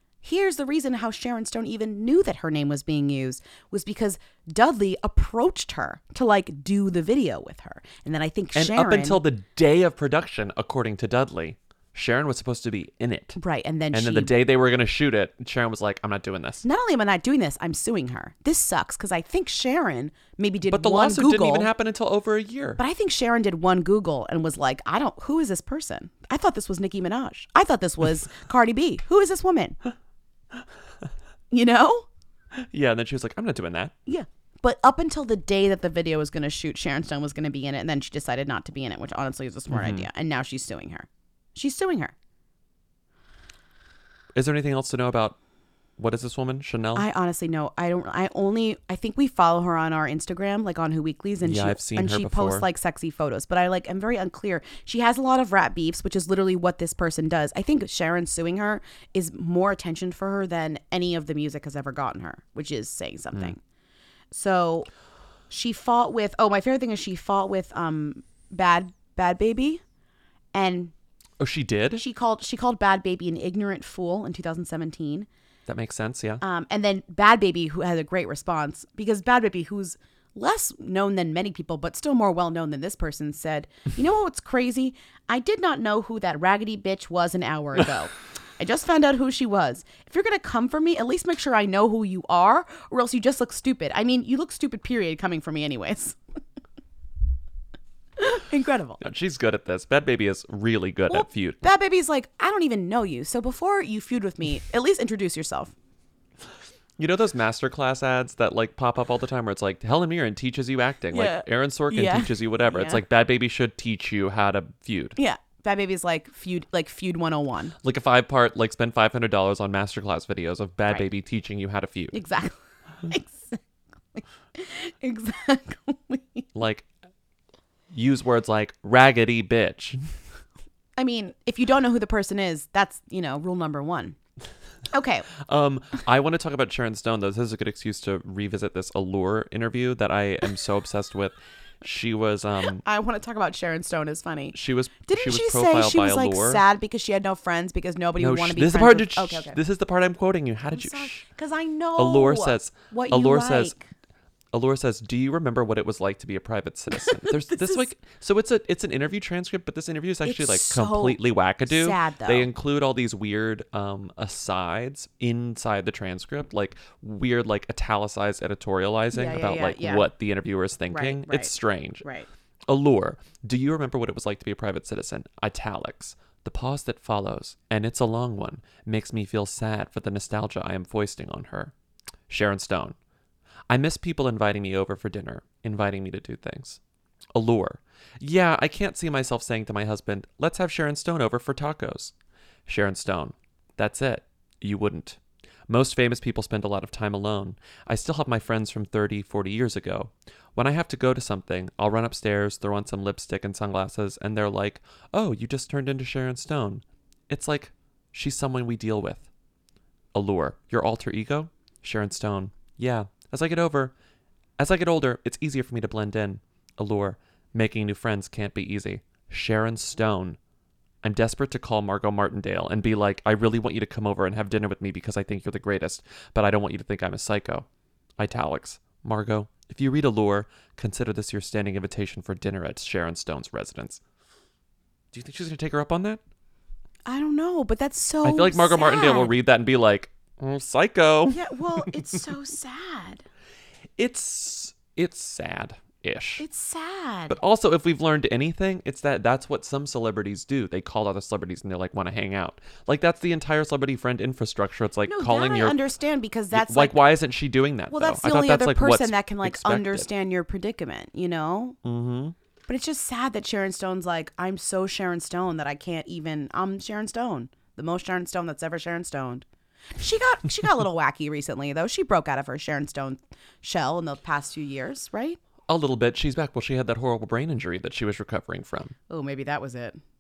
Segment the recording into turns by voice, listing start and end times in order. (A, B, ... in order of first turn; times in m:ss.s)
0:00.2-0:09.2 A
0:08.5-0:13.4 B
0:13.4-0:14.3 A
0:13.9-0:16.6 B
0:16.6-0:21.7 A
0:20.7-0:22.8 B
0:22.8-0:29.8 A
0:31.5-0:32.1 A
0:32.6-0:34.0 B
0:34.1-0:42.1 A
0:39.7-0:40.1 B
0:44.3-0:45.4 B
0:46.0-0:47.1 B
0:47.0-1:03.6 A
0:51.4-0:52.7 B
1:04.3-1:04.9 A
1:05.5-1:09.8 A
1:10.5-1:10.9 A
1:11.4-1:12.0 B
1:12.0-1:15.3 A
1:15.7-1:16.4 B
1:16.4-1:36.2 A
1:38.2-1:39.0 A
1:39.0-1:41.7 B
1:41.1-1:45.7 A
1:47.0-1:55.2 B
1:51.1-1:53.0 A
1:55.2-1:57.8 A
1:57.8-2:02.2 B
2:02.1-2:03.6 A
2:04.2-2:06.5 A
2:06.6-2:06.9 B
2:07.9-2:10.1 B
2:11.0-2:14.2 A
2:14.9-2:15.3 A
2:15.4-2:22.8 B
2:22.8-2:29.6 A
2:24.5-2:26.6 B
2:28.2-2:31.3 B
2:30.7-2:33.9 A
2:32.0-2:33.8 B
2:34.5-2:52.0 B
2:37.1-2:37.8 A
2:40.2-2:42.5 A
2:49.1-2:50.1 A
2:50.9-2:52.3 A
2:52.7-3:01.7 B
3:02.3-3:03.0 B
3:03.7-3:06.8 B
3:07.3-3:12.1 B
3:12.7-3:29.3 B
3:30.1-3:33.9 B
3:34.6-3:40.4 B
3:41.0-3:47.7 B
3:48.2-3:54.0 B
3:55.1-3:56.2 B
3:57.1-3:59.3 A
3:58.2-4:02.0 B
4:01.3-4:03.3 A
4:04.0-4:06.4 B
4:06.4-4:07.4 A
4:07.3-4:15.8 B
4:15.1-4:17.0 A
4:16.5-4:20.1 B
4:17.9-4:21.8 A
4:21.8-4:22.4 B
4:22.7-4:29.4 A
4:30.0-4:35.4 A
4:35.7-4:38.9 B
4:39.1-4:40.0 A